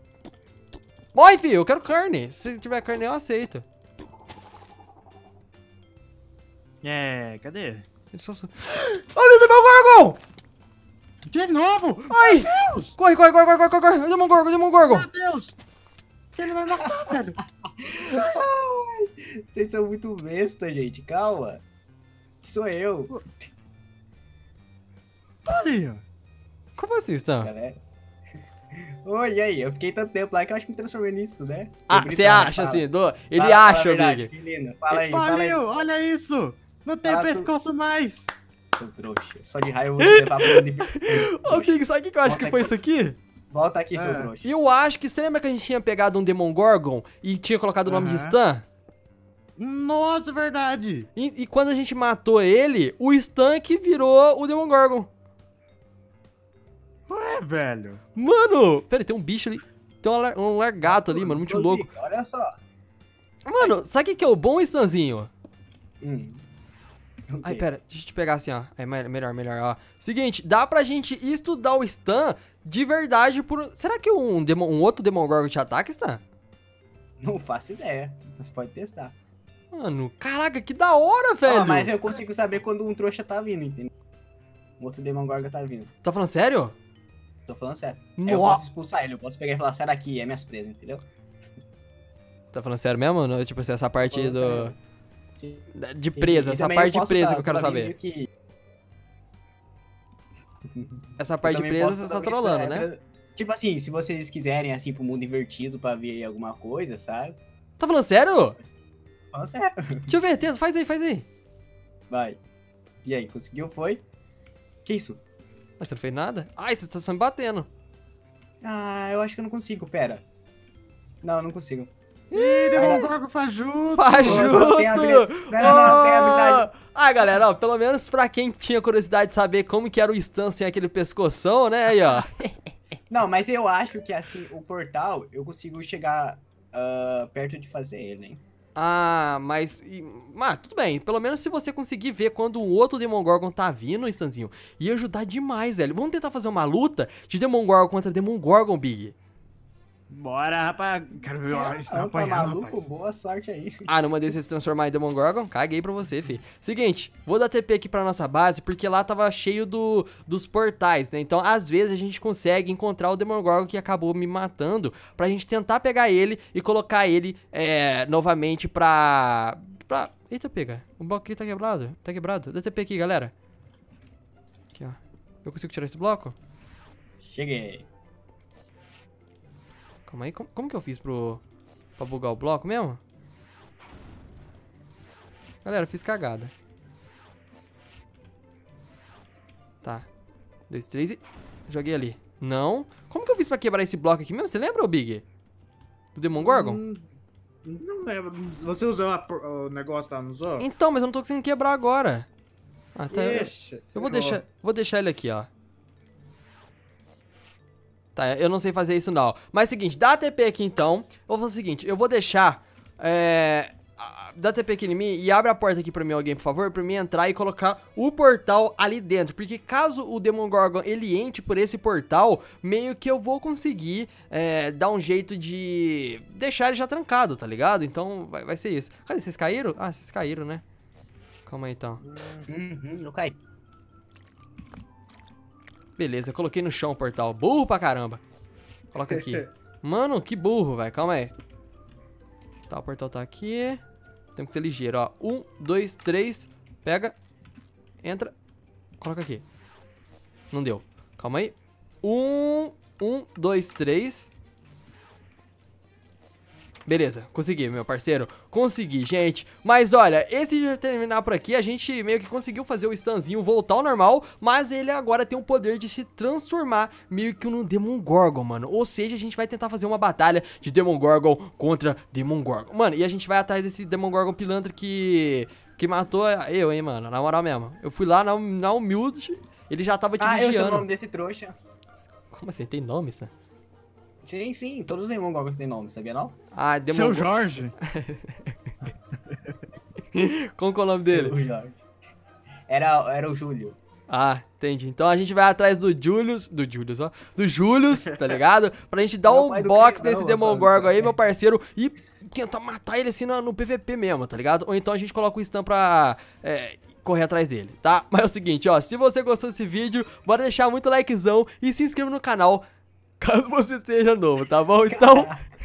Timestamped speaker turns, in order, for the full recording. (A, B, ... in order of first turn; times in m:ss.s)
0:01.2-0:03.6 A
0:06.8-0:07.8 B
0:08.1-0:10.2 A
0:11.3-0:13.0 B
0:12.1-0:15.1 A
0:14.8-0:15.6 B
0:16.4-0:17.4 B
0:17.8-0:21.6 C
0:22.4-0:23.3 C
0:25.4-0:26.0 B
0:26.8-0:27.5 A
0:27.4-0:27.8 C
0:28.8-0:35.6 C
0:31.9-0:34.3 A
0:34.9-0:38.3 B
0:37.0-0:37.5 C
0:38.7-0:42.8 C
0:40.0-0:43.2 A
0:43.5-0:44.5 C
0:43.9-0:44.3 B
0:44.4-0:48.7 A
0:47.9-0:48.4 B
0:49.6-0:51.1 B
0:51.2-0:55.1 A
0:57.1-0:58.0 B
0:58.2-1:01.9 A
1:00.8-1:02.5 C
1:03.4-1:05.3 A
1:06.0-1:06.4 C
1:07.3-1:07.7 C
1:07.4-1:16.2 A
1:17.2-1:19.1 C
1:19.7-1:22.0 A
1:21.4-1:23.9 C
1:24.8-1:25.9 C
1:26.0-1:26.8 A
1:27.5-1:31.1 C
1:28.2-1:28.7 A
1:32.5-1:34.8 A
1:34.0-1:34.8 C
1:35.4-1:38.3 C
1:35.7-1:37.9 A
1:40.7-1:47.4 C
1:41.2-1:42.9 A
1:47.8-1:48.6 A
1:49.3-1:50.1 C
1:50.1-1:51.3 A
1:52.1-1:52.4 C
1:53.0-1:54.0 C
1:54.8-1:55.2 C
1:55.8-1:57.7 A
1:58.6-2:00.2 C
2:01.2-2:01.9 C
2:02.3-2:03.1 A
2:02.3-2:04.6 B
2:02.8-2:03.1 C
2:04.0-2:12.5 A
2:04.2-2:06.7 C
2:13.1-2:18.4 C
2:18.8-2:29.2 A
2:30.1-2:32.8 B
2:31.5-2:33.8 C
2:33.9-2:53.3 A
2:54.7-2:56.4 A
2:57.2-2:57.9 C
3:00.1-3:01.4 A
3:02.0-3:03.0 A
3:05.6-3:06.5 A
3:09.8-3:10.1 A
3:10.7-3:15.2 A
3:16.2-3:16.8 A
3:16.4-3:17.1 B
3:17.6-3:20.7 B
3:20.6-3:22.3 A
3:23.0-3:25.5 A
3:23.1-3:24.4 B
3:28.2-3:50.6 A
3:51.5-3:52.0 A
3:52.0-3:53.4 C
3:56.0-3:58.2 A
3:58.9-4:01.3 A
4:02.7-4:03.8 A
4:04.4-4:07.2 A
4:08.0-4:08.3 A
4:09.0-4:09.4 A
4:10.5-4:14.3 A
4:16.9-4:40.9 A
4:40.2-4:41.6 C
4:42.3-4:43.3 A
4:44.2-4:46.4 C
4:46.5-4:47.3 A
4:46.9-4:47.8 B
4:47.8-4:48.6 A
4:50.1-4:51.4 A
4:51.0-4:51.8 C
4:52.7-4:53.8 C
4:54.1-5:12.6 A
4:59.2-5:01.1 C
5:13.2-5:15.3 A
5:14.9-5:15.4 C